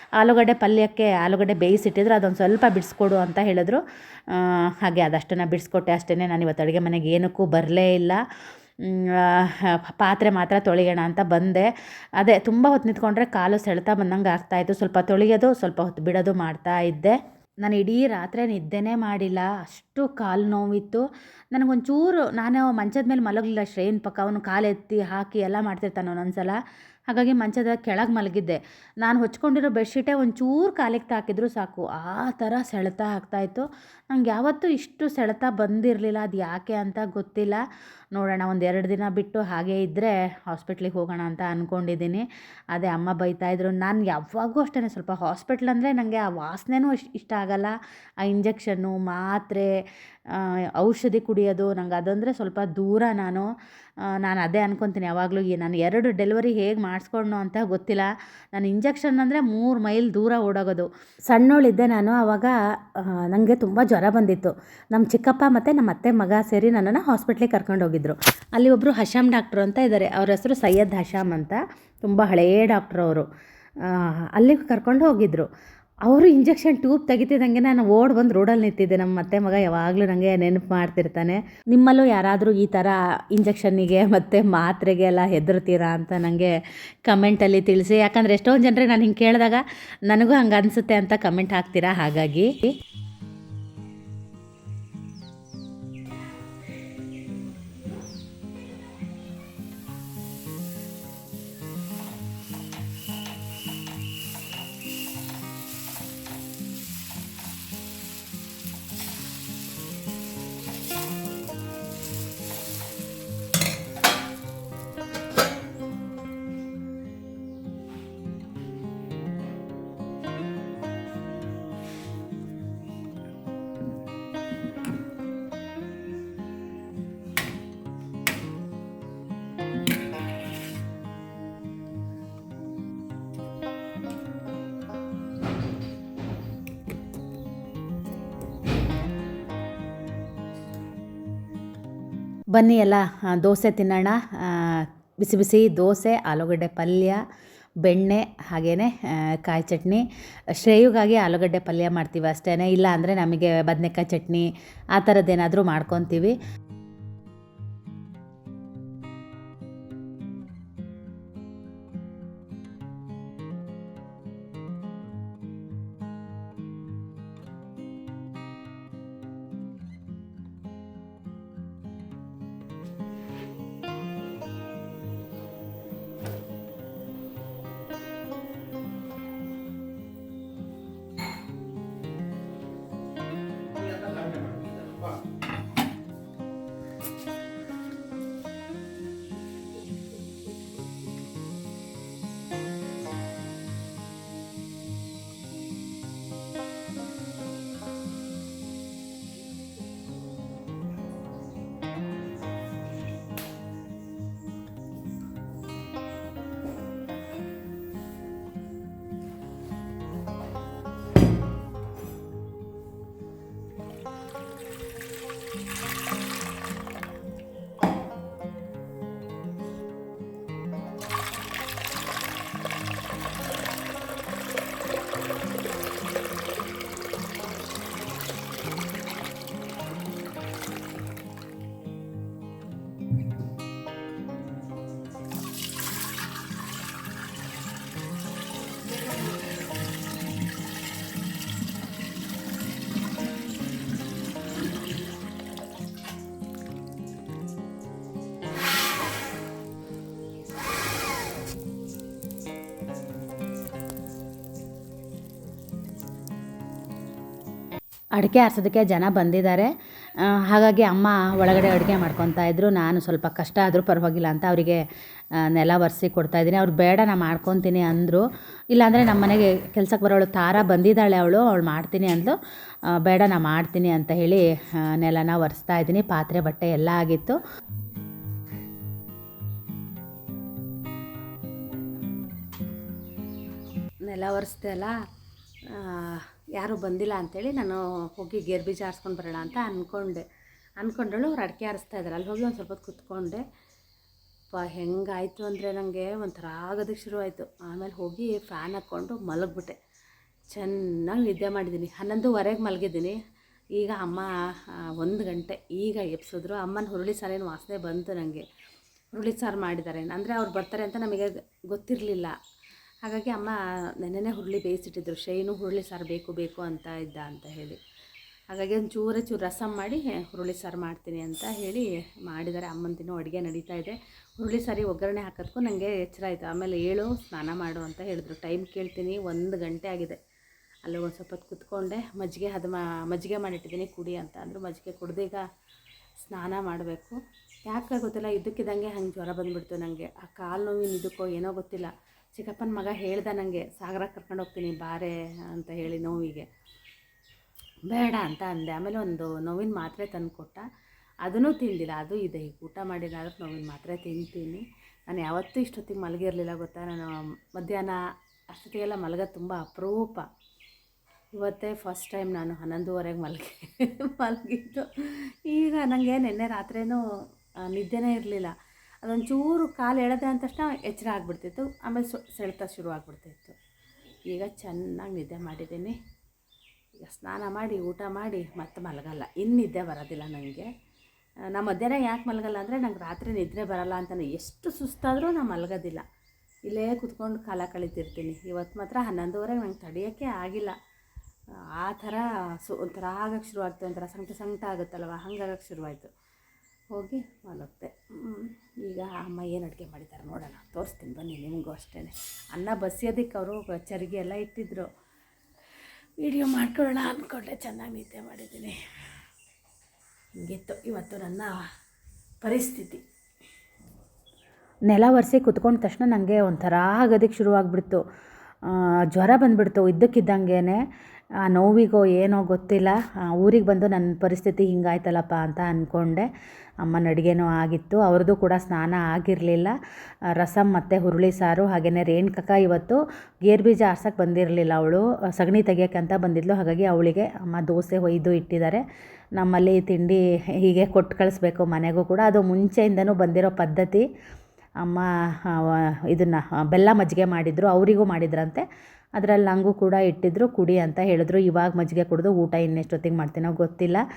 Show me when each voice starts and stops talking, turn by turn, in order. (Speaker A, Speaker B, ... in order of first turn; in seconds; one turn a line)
Speaker A: 0.2-3.8
Speaker A: 4.3-8.2
Speaker A: 8.8-26.6
Speaker A: 27.1-37.6
Speaker A: 38.1-49.7
Speaker A: 50.3-53.5
Speaker A: 54.1-73.3
Speaker A: 73.8-75.5
Speaker A: 76.0-86.5
Speaker A: 87.1-92.7
Speaker A: 142.5-147.2
Speaker A: 147.9-150.0
Speaker A: 150.6-156.4
Speaker A: 258.2-264.8
Speaker A: 265.4-272.4
Speaker A: 273.0-277.4
Speaker B: 284.1-284.9
Speaker B: 285.8-290.2
Speaker B: 290.8-293.4
Speaker B: 294.5-299.8
Speaker B: 300.5-303.2
Speaker B: 303.8-304.3
Speaker B: 305.0-308.4
Speaker B: 309.2-312.3
Speaker B: 313.1-313.5
Speaker B: 314.1-317.8
Speaker B: 318.5-323.9
Speaker B: 324.4-330.2
Speaker B: 330.9-335.4
Speaker B: 336.2-346.4
Speaker A: 347.9-350.6
Speaker A: 351.3-354.4
Speaker B: 352.8-354.6
Speaker B: 355.1-357.1
Speaker A: 357.6-357.9
Speaker A: 358.6-360.2
Speaker B: 359.5-359.9
Speaker A: 361.5-364.9
Speaker B: 362.2-363.2
Speaker A: 365.5-366.9
Speaker B: 365.6-366.9
Speaker A: 367.8-368.4
Speaker B: 367.8-368.5
Speaker B: 369.1-373.5
Speaker A: 369.5-369.8
Speaker A: 371.3-371.9
Speaker A: 372.8-373.5
Speaker B: 374.3-376.0
Speaker B: 377.1-380.6
Speaker B: 381.6-386.0
Speaker A: 384.6-384.9
Speaker A: 385.5-386.0
Speaker B: 386.7-390.7
Speaker B: 391.8-396.1
Speaker A: 397.0-397.4
Speaker B: 397.0-404.9
Speaker B: 406.2-408.7
Speaker A: 406.9-407.2
Speaker B: 410.4-411.6
Speaker B: 412.4-413.0
Speaker A: 414.9-418.0
Speaker A: 418.7-420.8
Speaker A: 421.4-426.3
Speaker A: 426.9-429.8
Speaker A: 430.4-438.8
Speaker A: 439.4-444.1
Speaker A: 444.8-448.6
Speaker A: 449.2-454.0